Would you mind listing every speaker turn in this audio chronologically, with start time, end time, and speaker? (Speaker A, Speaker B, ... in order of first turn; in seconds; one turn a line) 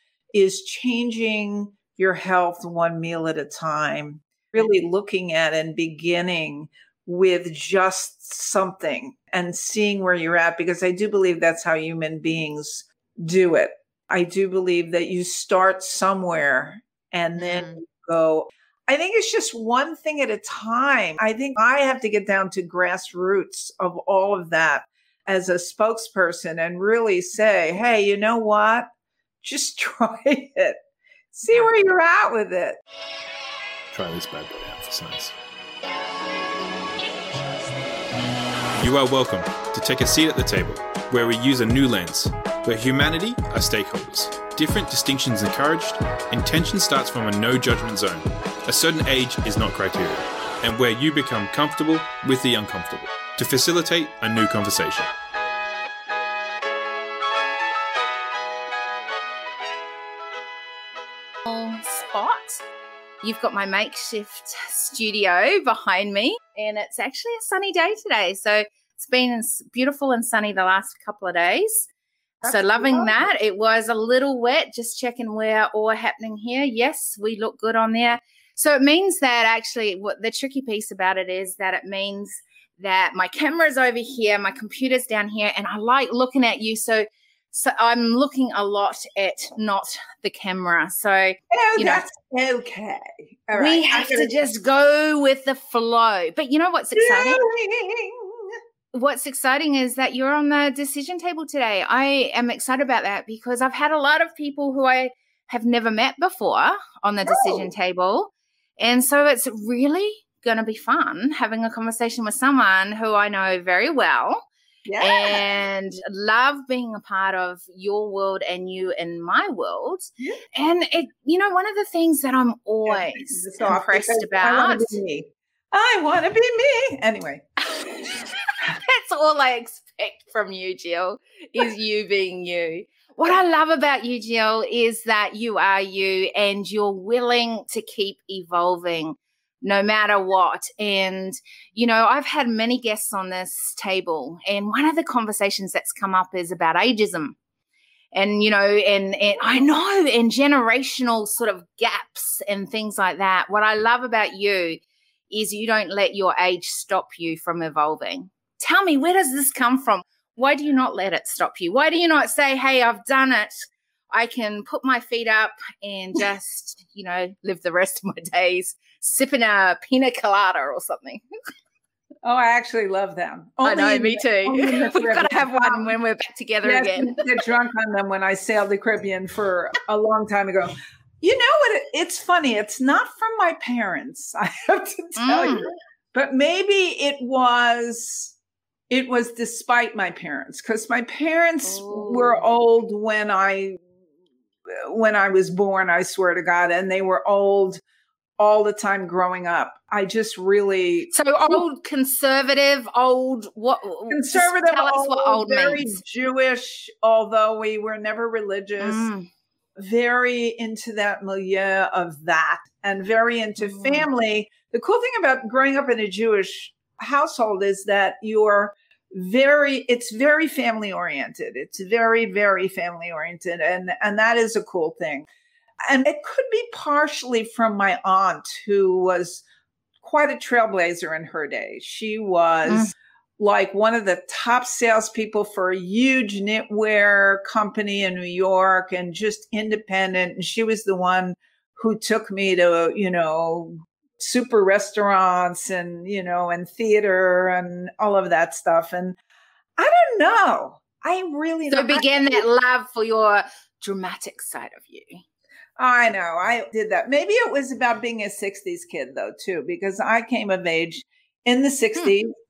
Speaker A: 0.3-28.9
Speaker B: 17.4-17.8
Speaker A: 29.4-30.8
Speaker A: 31.3-32.8
Speaker C: 33.9-35.4
Speaker C: 38.7-55.1
Speaker B: 61.5-62.6
Speaker B: 63.2-71.9
Speaker A: 72.4-73.3
Speaker B: 72.5-92.0
Speaker A: 91.5-94.4
Speaker B: 93.5-97.4
Speaker A: 97.0-98.5
Speaker B: 98.9-114.5
Speaker A: 107.3-107.7
Speaker A: 114.9-115.4
Speaker B: 115.0-125.0
Speaker A: 122.8-127.5
Speaker B: 128.0-147.4
Speaker B: 148.1-171.2
Speaker A: 172.2-175.9
Speaker B: 173.6-177.2
Speaker A: 176.6-188.3
Speaker B: 185.2-185.7
Speaker A: 188.9-193.8
Speaker B: 191.6-192.4
Speaker A: 194.7-197.8
Speaker A: 198.4-201.6
Speaker B: 201.1-206.0
Speaker A: 204.1-209.1
Speaker B: 208.8-209.3
Speaker A: 209.8-225.3
Speaker B: 213.6-214.1
Speaker A: 225.8-229.4
Speaker A: 230.0-249.2
Speaker B: 232.7-232.9
Speaker A: 249.8-252.4
Speaker B: 251.7-255.2
Speaker A: 255.8-262.3